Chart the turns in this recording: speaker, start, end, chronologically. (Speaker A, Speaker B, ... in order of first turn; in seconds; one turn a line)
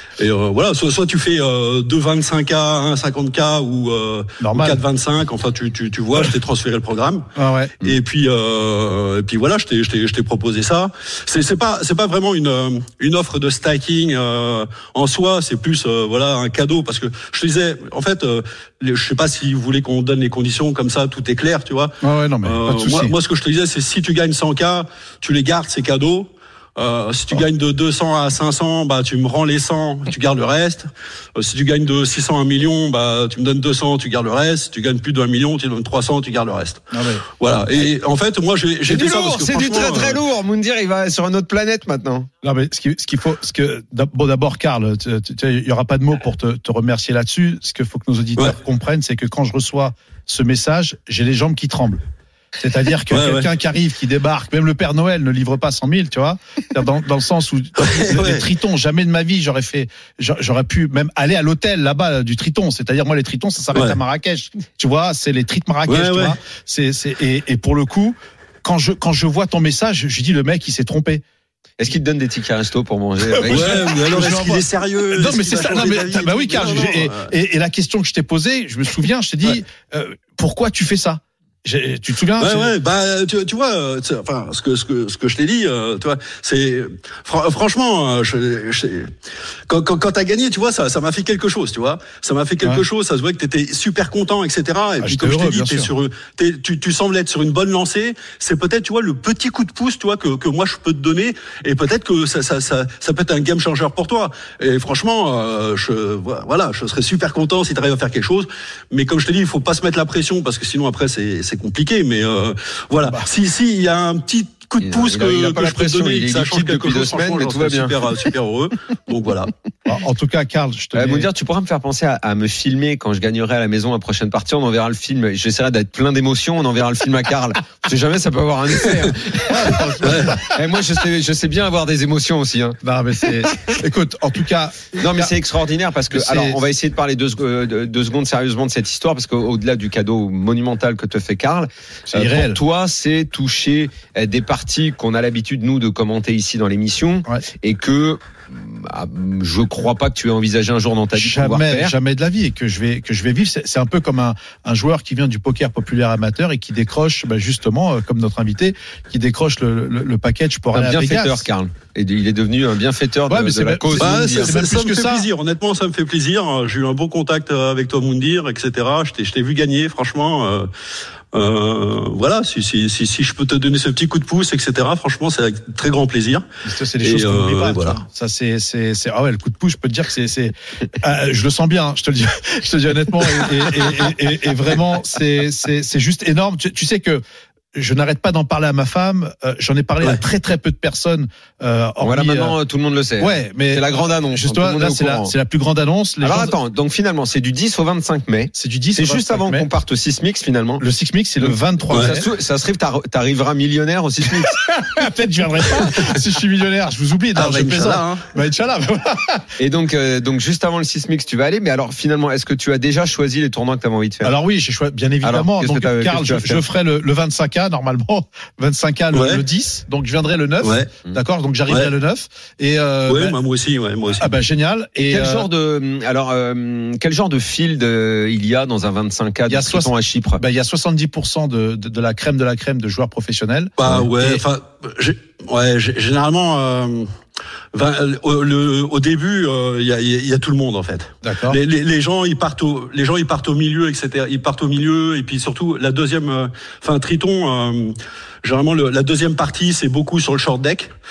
Speaker A: 0.2-7.2
Speaker B: 4.4-4.8
Speaker B: 7.4-7.8
Speaker A: 7.8-40.2
Speaker B: 22.0-23.1
Speaker B: 36.9-37.2
Speaker C: 38.9-42.3
Speaker B: 42.4-52.0
Speaker B: 52.6-71.2
Speaker A: 53.1-53.5
Speaker A: 57.8-58.5
Speaker A: 65.9-66.3
Speaker C: 71.8-74.0
Speaker B: 73.3-82.7
Speaker A: 73.5-77.3
Speaker A: 82.4-89.1
Speaker A: 89.7-119.5
Speaker B: 95.0-95.9
Speaker C: 114.8-118.3
Speaker B: 119.8-121.3
Speaker C: 120.9-132.8
Speaker B: 129.4-130.6
Speaker A: 130.0-130.3
Speaker B: 132.8-135.3
Speaker C: 135.0-151.9
Speaker B: 136.1-136.6
Speaker B: 142.1-142.6
Speaker B: 151.1-161.5
Speaker C: 160.7-164.5
Speaker B: 163.3-165.3
Speaker A: 163.9-170.7
Speaker A: 171.3-176.4
Speaker B: 176.7-187.2
Speaker A: 177.0-178.0
Speaker B: 187.8-192.6
Speaker C: 192.0-195.3
Speaker B: 193.2-196.6
Speaker C: 196.2-200.8
Speaker B: 198.5-199.7
Speaker B: 200.8-202.3
Speaker C: 201.4-204.6
Speaker B: 204.4-209.5
Speaker A: 207.3-208.3
Speaker C: 209.6-214.3
Speaker B: 214.2-223.4
Speaker C: 215.2-216.6
Speaker A: 219.1-219.4
Speaker A: 220.6-220.9
Speaker A: 223.1-224.3
Speaker B: 224.2-225.5
Speaker C: 225.1-230.4
Speaker B: 229.5-234.4
Speaker A: 233.8-237.1
Speaker A: 237.7-250.9
Speaker B: 241.2-241.6